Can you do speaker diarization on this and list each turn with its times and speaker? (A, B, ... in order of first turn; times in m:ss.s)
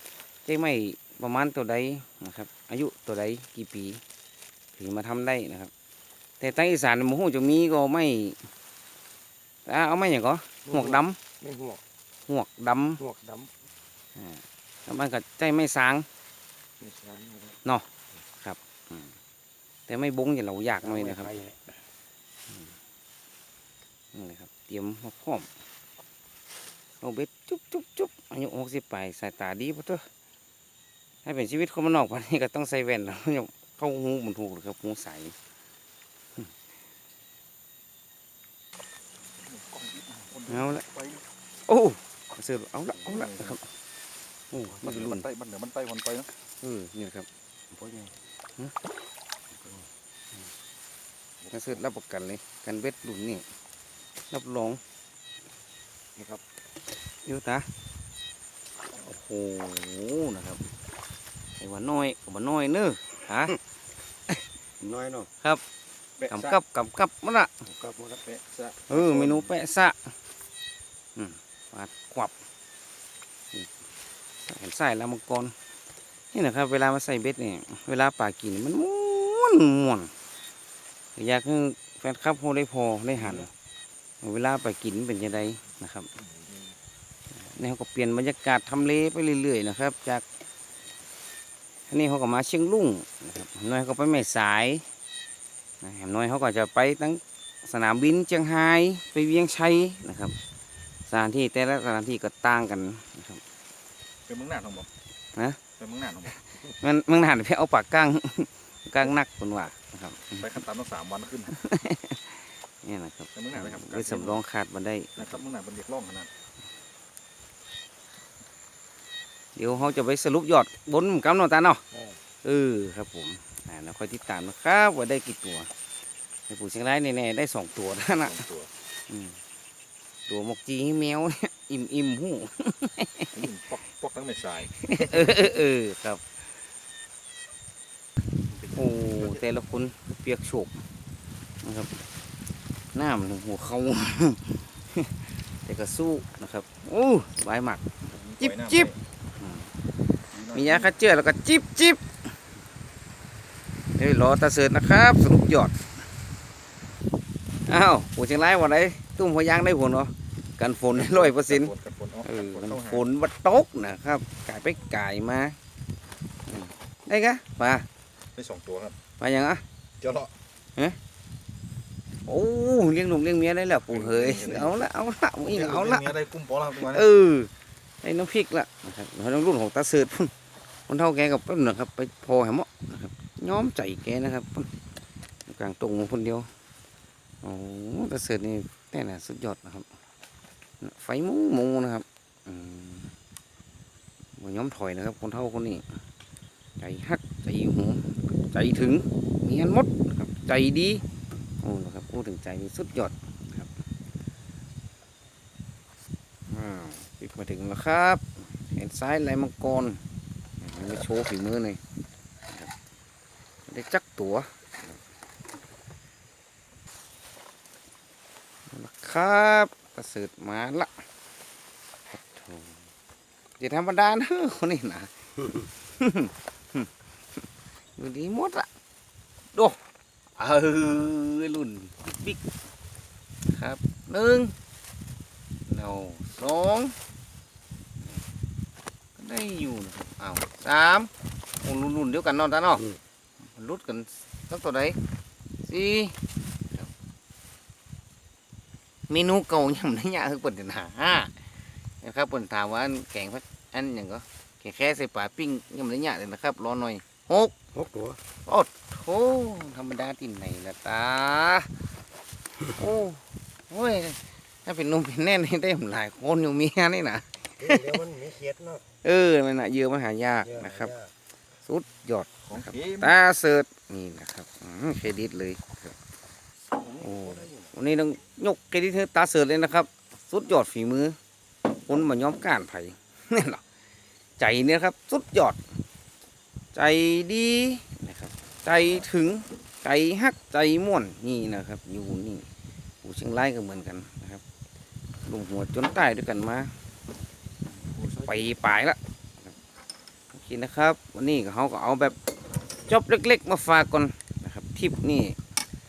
0:00.4-0:04.0 A
0:04.7-0:05.7 A
0:06.4-0:08.4 A
0:09.7-0:11.2 A
0:10.6-0:11.8 B
0:12.3-0:13.0 A
0:13.0-0:13.5 B
0:14.2-0:16.1 A
0:16.8-0:17.6 B
0:18.4-0:19.1 A
0:19.9-0:21.4 A
0:20.8-0:21.8 B
0:24.1-0:25.5 A
0:27.0-0:30.0 A
0:31.2-0:35.4 A
0:39.3-0:41.2 C
0:40.5-0:40.8 A
0:41.7-0:43.6 A
0:43.0-0:43.6 C
0:44.5-0:45.2 A
0:44.8-0:46.3 C
0:46.6-0:47.3 A
0:47.7-0:48.1 B
0:49.6-0:49.9 B
0:51.4-0:51.7 C
0:51.5-0:53.4 A
0:54.3-0:54.8 A
0:56.2-0:56.4 B
0:57.2-0:57.7 A
0:59.0-1:00.6 A
1:01.6-1:03.6 A
1:04.8-1:05.3 B
1:06.2-1:06.6 C
1:06.3-1:07.6 A
1:07.6-1:08.2 B
1:08.2-1:09.5 C
1:08.9-1:10.1 A
1:11.2-1:12.3 A
1:14.4-1:15.5 A
1:16.3-1:20.1 A
1:21.2-1:23.5 A
1:24.2-1:26.1 A
1:26.2-1:26.8 B
1:27.4-1:30.2 A
1:31.9-1:34.8 A
1:35.8-1:40.4 A
1:41.1-1:43.4 A
1:44.3-1:44.9 C
1:45.8-1:46.4 C
1:46.5-1:50.5 A
1:50.3-1:51.6 C
1:51.5-1:55.4 A
1:53.4-1:54.4 C
1:55.2-1:56.3 C
1:59.6-2:01.8 A
2:01.9-2:02.2 B
2:02.4-2:05.7 A
2:06.5-2:08.4 A
2:08.2-2:08.7 C
2:09.1-2:09.4 A
2:10.3-2:13.4 A
2:13.3-2:15.3 C
2:14.8-2:16.2 A
2:18.5-2:19.5 C
2:18.8-2:20.7 A
2:21.6-2:22.0 A
2:23.0-2:27.8 A
2:28.1-2:29.0 C
2:28.4-2:29.7 A
2:30.3-2:30.9 C
2:30.5-2:32.0 A
2:34.0-2:35.8 A
2:37.7-2:41.7 A
2:40.9-2:43.1 C
2:42.2-2:45.6 A
2:46.5-2:47.9 A
2:48.4-2:49.0 C
2:49.2-2:49.6 A
2:50.0-2:50.3 C
2:52.3-2:56.2 A
2:53.9-2:54.8 C
2:55.4-2:57.1 C
2:56.8-2:57.5 A
2:58.0-3:00.3 A
3:00.9-3:04.7 A
3:05.5-3:06.5 A
3:07.4-3:09.9 A
3:10.8-3:13.1 A
3:14.4-3:15.9 A
3:16.8-3:21.0 A
3:21.6-3:23.7 A
3:26.5-3:30.0 A
3:30.6-3:31.8 A
3:33.7-3:35.0 A
3:38.7-3:41.0 A
3:42.1-3:42.8 A
3:43.6-3:45.1 A
3:45.8-3:46.9 A
3:48.0-3:48.7 A
3:50.4-3:52.4 A
3:53.5-3:54.5 A
3:55.7-3:57.0 A
3:59.2-4:01.1 A
4:01.6-4:02.8 A
4:03.5-4:05.0 A
4:05.6-4:06.2 A
4:09.1-4:11.4 A
4:12.0-4:17.5 A
4:17.7-4:18.2 B
4:18.4-4:21.7 A
4:22.7-4:28.0 A
4:27.6-4:28.9 B
4:29.0-4:30.9 A
4:30.4-4:31.1 B
4:31.6-4:36.0 A
4:32.5-4:33.2 C
4:36.7-4:37.7 B
4:37.0-4:41.2 A
4:41.9-4:43.6 A
4:44.4-4:45.6 A
4:46.8-4:52.5 A
4:53.0-4:54.4 A
4:55.3-4:56.7 A
4:58.0-4:59.6 A
5:00.3-5:02.2 A
5:02.9-5:05.4 A